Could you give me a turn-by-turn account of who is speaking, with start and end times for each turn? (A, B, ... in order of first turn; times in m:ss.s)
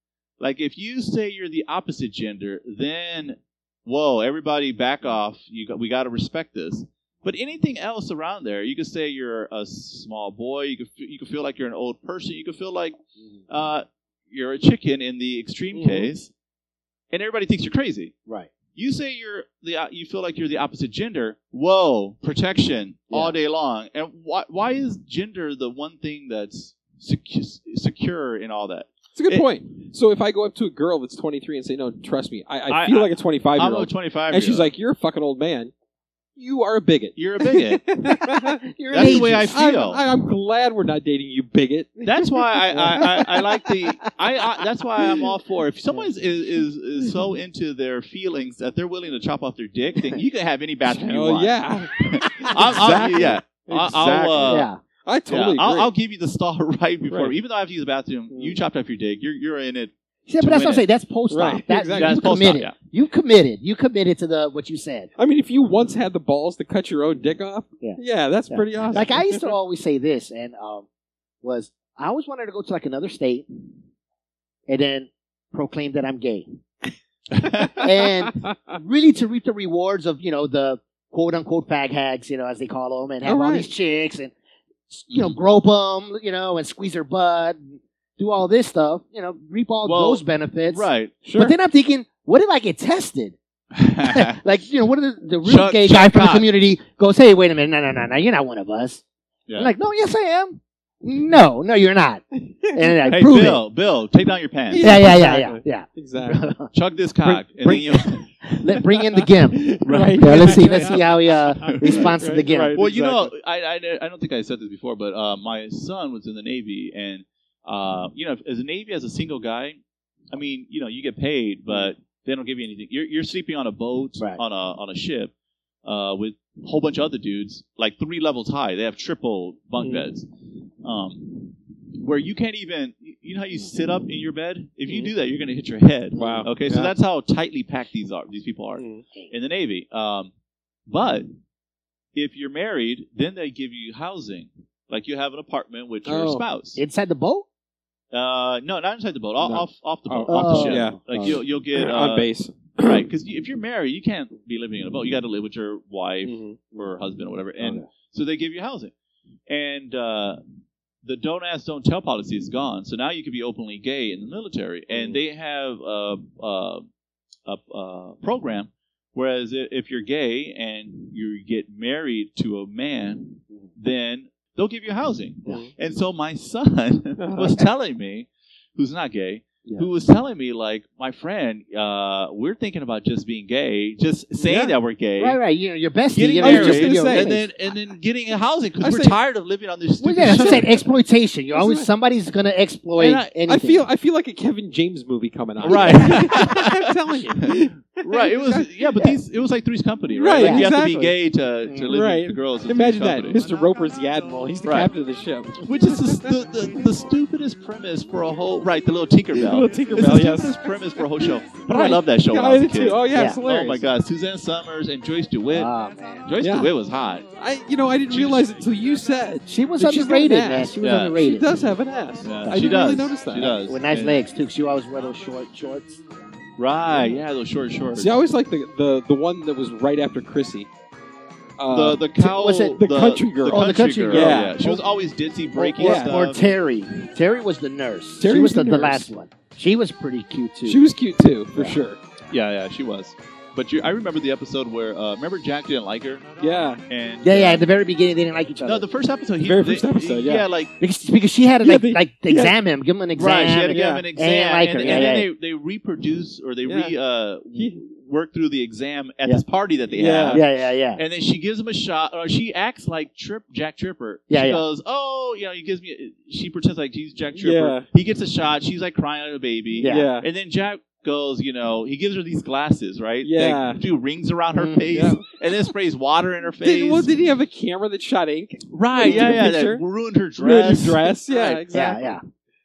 0:00.4-0:13.0 A
0:13.5-0:16.3 A
0:15.7-0:16.1 B
0:17.1-0:18.1 A
0:18.7-0:29.5 A
0:29.2-0:35.7 B
0:32.7-0:34.7 A
0:36.4-0:43.4 B
0:37.2-0:37.9 A
0:38.7-0:39.6 C
0:38.9-0:40.0 A
0:42.0-0:54.7 A
0:50.8-0:55.9 B
0:54.5-0:54.8 C
0:55.3-1:00.8 A
0:57.1-0:57.3 B
0:58.3-0:58.6 C
1:00.3-1:05.1 C
1:01.3-1:02.2 B
1:01.9-1:02.7 A
1:05.2-1:09.5 B
1:07.8-1:10.8 C
1:11.4-1:13.5 C
1:14.7-1:16.6 C
1:17.4-1:17.8 A
1:17.7-1:24.3 C
1:18.3-1:18.7 B
1:23.2-1:23.7 B
1:24.9-1:33.4 C
1:29.8-1:31.2 A
1:31.2-1:31.5 B
1:33.7-1:34.4 A
1:34.0-1:39.0 C
1:35.4-1:36.5 A
1:39.6-1:43.6 C
1:42.4-1:42.9 B
1:43.1-1:45.1 A
1:44.7-1:46.5 B
1:44.8-1:46.7 C
1:46.7-1:48.3 A
1:47.6-1:52.8 C
1:49.0-1:53.3 B
1:49.8-1:51.0 A
1:51.6-1:52.1 A
1:52.7-1:59.8 A
2:00.3-2:05.3 A
2:05.8-2:10.3 A
2:09.8-2:10.0 B
2:10.8-2:20.3 A
2:16.1-2:16.5 C
2:16.1-2:16.9 B
2:18.8-2:19.0 B
2:20.9-2:21.3 A
2:22.1-2:26.8 A
2:26.0-2:26.4 B
2:26.8-2:27.5 C
2:28.1-2:32.3 A
2:29.4-2:33.0 B
2:30.3-2:31.4 C
2:32.8-2:38.9 A
2:36.2-2:36.6 B
2:37.6-2:37.8 C
2:39.5-2:40.4 A
2:41.0-2:46.9 A
2:47.4-3:05.4 A
2:57.2-2:57.6 B
3:04.4-3:04.7 B
3:05.2-3:07.5 C
3:06.1-3:10.8 A
3:06.4-3:07.4 B
3:08.8-3:09.2 B
3:10.0-3:13.8 C
3:10.2-3:10.7 B
3:11.5-3:11.9 B
3:13.0-3:13.3 A
3:13.4-3:18.7 B
3:15.6-3:16.8 A
3:17.4-3:23.4 A
3:20.1-3:21.2 B
3:20.4-3:20.7 C
3:21.6-3:21.9 C
3:21.9-3:26.3 B
3:24.6-3:24.9 A
3:25.6-3:35.7 A
3:29.3-3:30.6 B
3:31.6-3:33.8 B
3:33.1-3:33.4 C
3:35.5-3:36.3 C
3:36.2-3:37.3 A
3:36.4-3:36.7 B
3:37.4-3:43.6 B
3:38.1-3:38.5 A
3:39.5-3:41.5 C
3:40.8-3:41.2 A
3:42.2-3:44.2 A
3:43.4-3:46.0 C
3:46.6-3:48.2 A
3:48.0-3:50.7 B
3:51.6-3:54.6 B
3:51.7-3:56.4 A
3:52.2-3:52.8 C
3:53.5-3:54.8 C
3:55.6-4:00.8 C
3:55.8-3:56.1 B
3:58.2-3:59.1 B
4:00.6-4:02.0 B
4:02.3-4:06.3 A
4:06.4-4:06.8 B
4:06.9-4:07.6 A
4:07.2-4:08.8 C
4:08.6-4:10.7 A
4:09.4-4:10.5 B
4:10.8-4:15.3 C
4:11.6-4:12.6 B
4:13.2-4:37.1 A
4:13.7-4:14.0 B
4:14.8-4:15.1 B
4:16.6-4:16.9 B
4:17.5-4:17.8 B
4:19.9-4:20.4 B
4:20.3-4:21.0 C
4:24.3-4:24.6 C
4:27.3-4:27.9 B
4:29.8-4:30.1 C
4:29.8-4:30.3 B
4:33.2-4:33.8 B
4:34.5-4:34.9 C
4:34.9-4:35.2 B
4:36.6-4:39.8 B
4:38.7-4:41.7 A
4:39.0-4:39.4 C
4:40.4-4:42.1 B
4:41.7-4:42.2 C